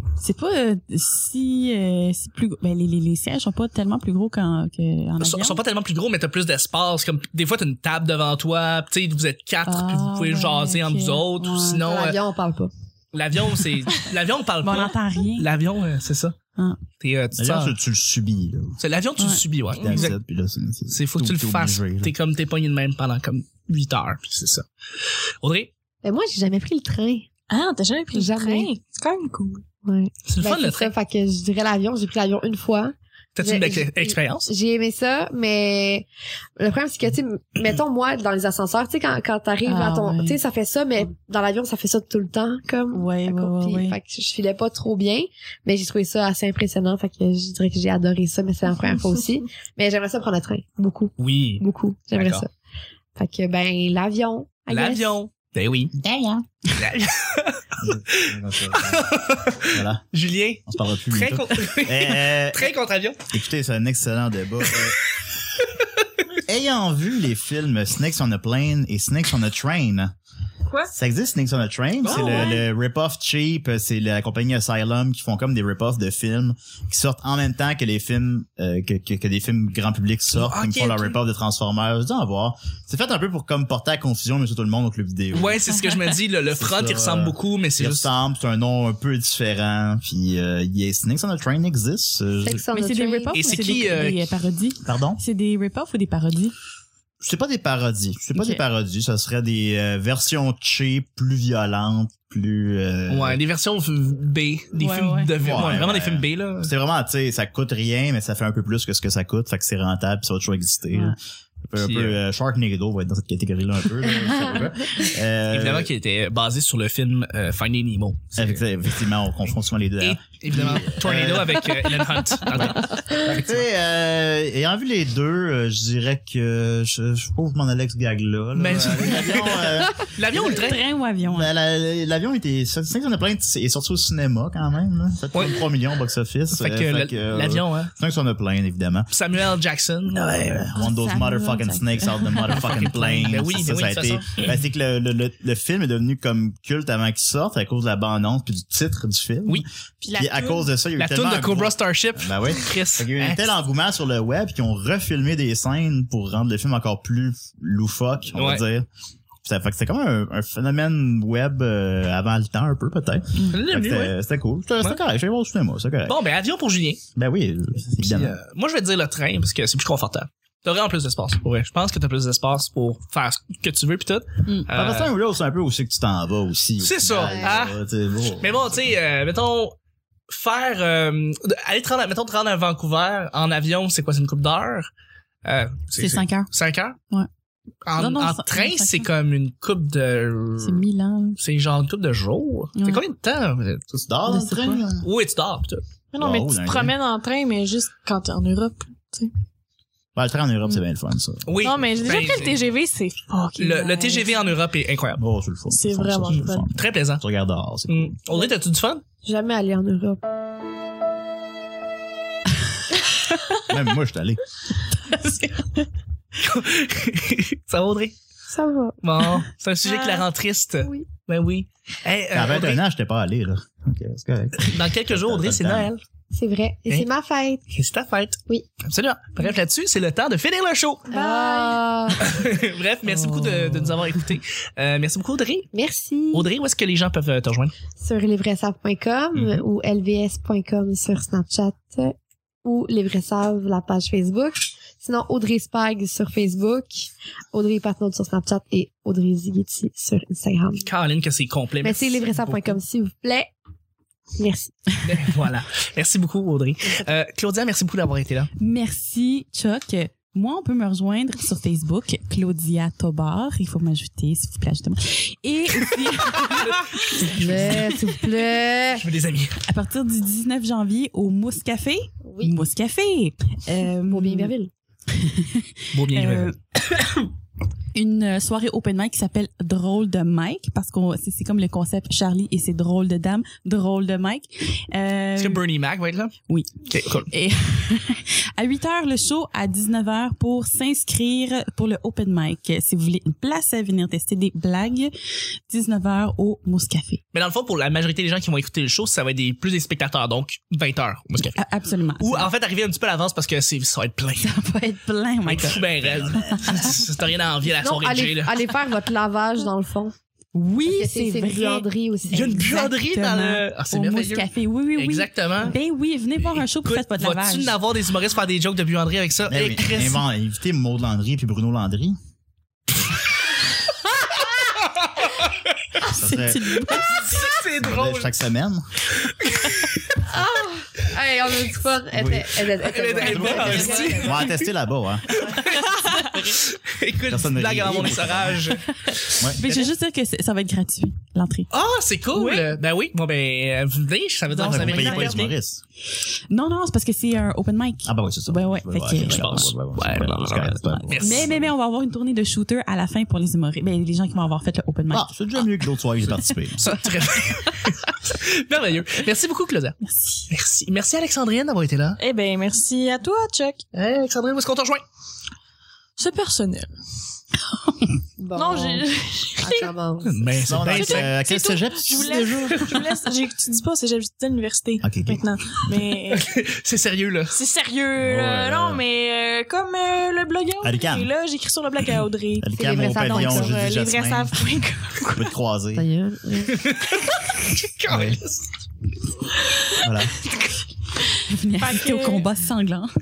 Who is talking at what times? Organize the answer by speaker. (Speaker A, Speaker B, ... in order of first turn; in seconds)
Speaker A: 0.2-5.6, 9.7-11.8, 14.6-15.5, 39.6-40.4, 42.9-44.0, 92.7-96.5, 104.8-105.3, 130.3-131.5, 140.8-142.6, 186.0-186.5, 187.9-189.1, 190.6-191.4, 192.8-193.0, 194.3-194.8, 233.1-234.0, 258.6-268.0, 269.6-274.5, 275.1-276.6, 277.9-285.6, 286.5-295.1, 295.7-297.2, 301.5-302.5, 304.4-307.0, 310.5-311.9, 312.6-317.8, 326.1-327.4, 339.1-341.7, 344.5-345.5, 346.5-349.7, 350.8-355.3, 356.9-357.8, 360.0-360.4, 367.7-368.1, 391.5-393.1
Speaker B: 5.2-12.2, 13.1-16.4, 17.0-17.7, 18.8-20.1, 20.9-24.6, 25.4-25.7, 30.3-30.9, 33.3-34.5, 51.2-52.4, 54.7-56.0, 56.8-63.2, 64.6-66.2, 72.0-72.6, 80.3-81.2, 85.3-88.1, 93.3-94.2, 103.1-106.7, 111.8-112.2, 115.5-118.6, 120.0-123.6, 128.6-130.8, 135.3-135.6, 136.5-137.9, 139.1-140.8, 142.5-144.5, 151.0-153.5, 158.3-158.6, 163.5-164.1, 166.1-167.0, 168.0-175.1, 176.8-177.8, 178.4-179.8, 180.3-184.9, 185.4-187.0, 187.8-190.8, 191.4-193.8, 195.0-195.8, 201.4-202.6, 203.6-205.2, 206.7-207.2, 207.9-209.0, 216.4-218.1, 219.0-222.8, 224.6-226.0, 227.7-231.1, 232.2-235.7, 236.3-237.7, 239.3-239.6, 250.8-252.8, 255.0-258.5, 266.3-267.9, 269.0-269.6, 275.9-276.5, 285.4-286.3, 286.9-287.3, 297.3-301.6, 302.2-304.5, 305.4-308.7, 312.3-315.8, 316.4-320.2, 324.4-326.1, 326.8-328.3, 329.1-330.1, 332.7-334.7, 335.3-339.9, 341.7-345.5, 349.2-351.5, 356.8-360.0, 360.5-362.2, 363.9-365.0, 370.2-371.3, 376.4-377.6, 386.7-388.7
Speaker C: 11.8-12.7, 26.0-27.3, 28.1-28.7, 29.8-36.0, 36.6-52.5, 53.1-55.1, 92.4-93.6, 114.2-114.6, 177.2-177.6, 209.2-210.2, 218.5-219.0, 226.3-227.6, 231.1-232.3, 235.7-236.5, 238.0-250.9, 251.8-253.5, 254.4-254.8, 267.1-269.0, 272.2-272.6, 274.1-274.7, 307.8-310.1, 310.8-312.9, 330.2-334.4, 368.4-369.1, 369.6-370.4, 382.7-383.8, 385.9-386.8
Speaker D: 17.4-18.8, 19.7-22.1, 56.0-56.4, 57.8-59.1, 59.6-60.0, 60.7-62.7, 63.3-65.0, 66.5-70.1, 70.9-85.6, 86.5-92.6, 94.8-95.2, 97.2-103.4, 105.4-111.2, 111.7-115.9, 118.3-121.7, 122.5-130.7, 131.2-139.1, 140.6-158.9, 159.4-166.2, 167.2-168.4, 174.7-178.9, 193.9-195.1, 196.2-196.9, 200.1-202.4, 205.2-208.2, 213.7-214.4, 222.3-225.9, 306.0-306.8, 319.5-322.2, 326.1-326.9, 327.8-328.9, 332.1-332.5, 333.2-335.3, 337.3-338.7, 344.6-345.8, 348.0-351.7, 355.1-356.9, 370.5-372.9, 375.0-375.4, 378.2-379.0, 380.8-381.3, 382.6-384.6, 385.3-386.0, 388.1-388.4, 390.0-390.3
Speaker E: 19.8-20.1, 27.5-29.6, 72.0-72.6, 150.0-150.7, 196.1-199.3, 201.6-204.4, 205.7-206.7, 219.9-220.2, 231.1-231.8, 333.4-334.3, 342.3-342.7, 362.2-363.8, 366.2-366.9, 368.5-369.9, 370.9-376.5, 377.5-385.5, 391.8-392.5